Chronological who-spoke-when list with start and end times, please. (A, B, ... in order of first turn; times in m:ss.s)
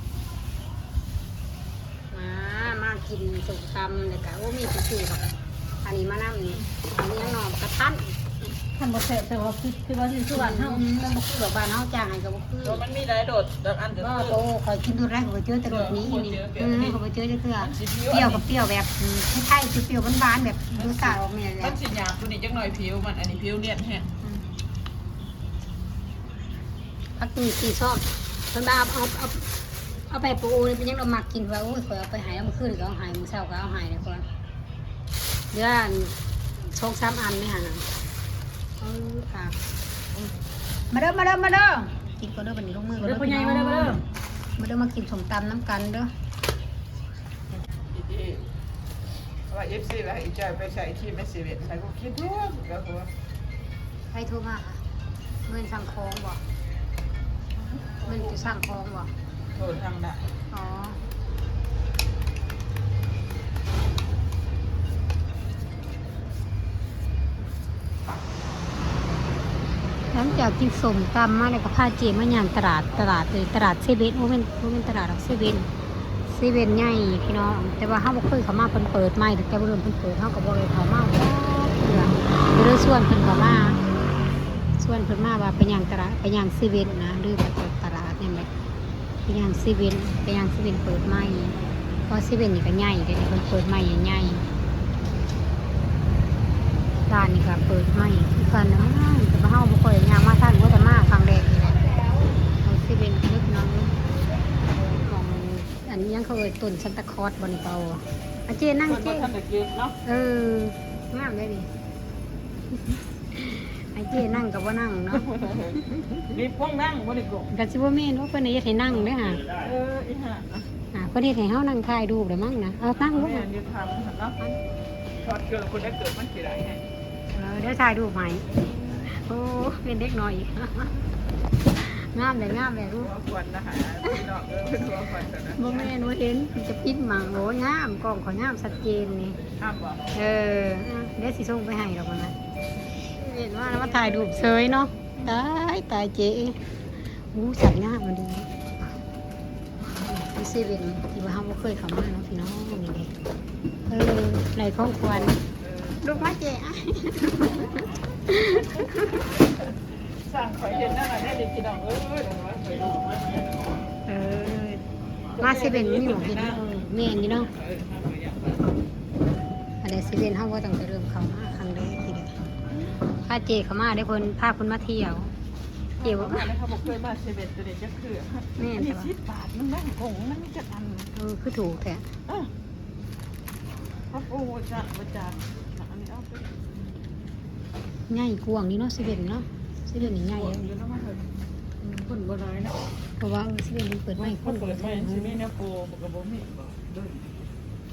0:02.1-0:08.2 A
0:08.8-0:10.8 B
0:10.3-0:12.8 A
0:12.6-0:14.4 C
0:14.0-0:21.8 A
0:15.7-0:17.0 C
0:17.6-0:18.4 C
0:20.7-0:24.1 C
0:27.2-0:29.5 A
0:30.1-0:34.3 A
0:35.5-0:36.2 A
0:36.7-0:37.9 A
0:38.8-0:39.6 A
0:40.9-0:44.0 A
0:43.0-0:44.0 B
0:44.6-0:46.1 A
0:47.9-0:48.5 C
0:49.5-0:53.1 C
0:54.1-0:54.8 A
0:55.5-0:56.4 A
0:57.6-0:58.3 C
0:58.1-0:59.1 A
0:59.5-1:00.3 C
1:00.5-1:01.0 A
1:10.1-1:15.7 A
1:16.3-1:23.8 A
1:24.8-1:28.5 A
1:29.3-1:31.6 A
1:32.1-1:34.4 A
1:37.1-1:41.9 A
1:42.6-1:44.0 A
1:44.8-1:49.3 A
1:48.9-1:50.0 C
1:50.0-1:51.7 A
1:53.3-1:55.5 A
1:55.1-1:57.5 C
1:57.5-1:59.5 A
1:59.5-2:00.7 C
2:00.9-2:03.5 A
2:02.9-2:04.4 C
2:05.2-2:06.8 C
2:07.3-2:11.0 A
2:11.8-2:13.1 A
2:12.9-2:16.0 C
2:15.6-2:19.4 A
2:19.5-2:20.1 C
2:20.1-2:22.4 A
2:23.1-2:26.6 A
2:23.7-2:24.5 C
2:27.3-2:28.5 A
2:29.9-2:33.1 A
2:33.9-2:35.4 A
2:35.1-2:36.2 C
2:36.0-2:39.2 A
2:38.5-2:43.7 C
2:44.1-2:44.8 A
2:45.4-2:46.8 C
2:45.4-2:47.5 A
2:47.4-2:48.7 C
2:49.8-2:52.4 A
2:53.2-2:55.3 A
2:56.0-3:01.1 C
2:56.0-2:56.5 A
2:58.6-2:59.1 A
3:01.2-3:02.1 A
3:04.1-3:06.6 C
3:08.1-3:10.7 A
3:10.0-3:11.4 C
3:11.8-3:12.1 A
3:12.0-3:12.9 C
3:13.2-3:15.4 A
3:14.2-3:17.3 C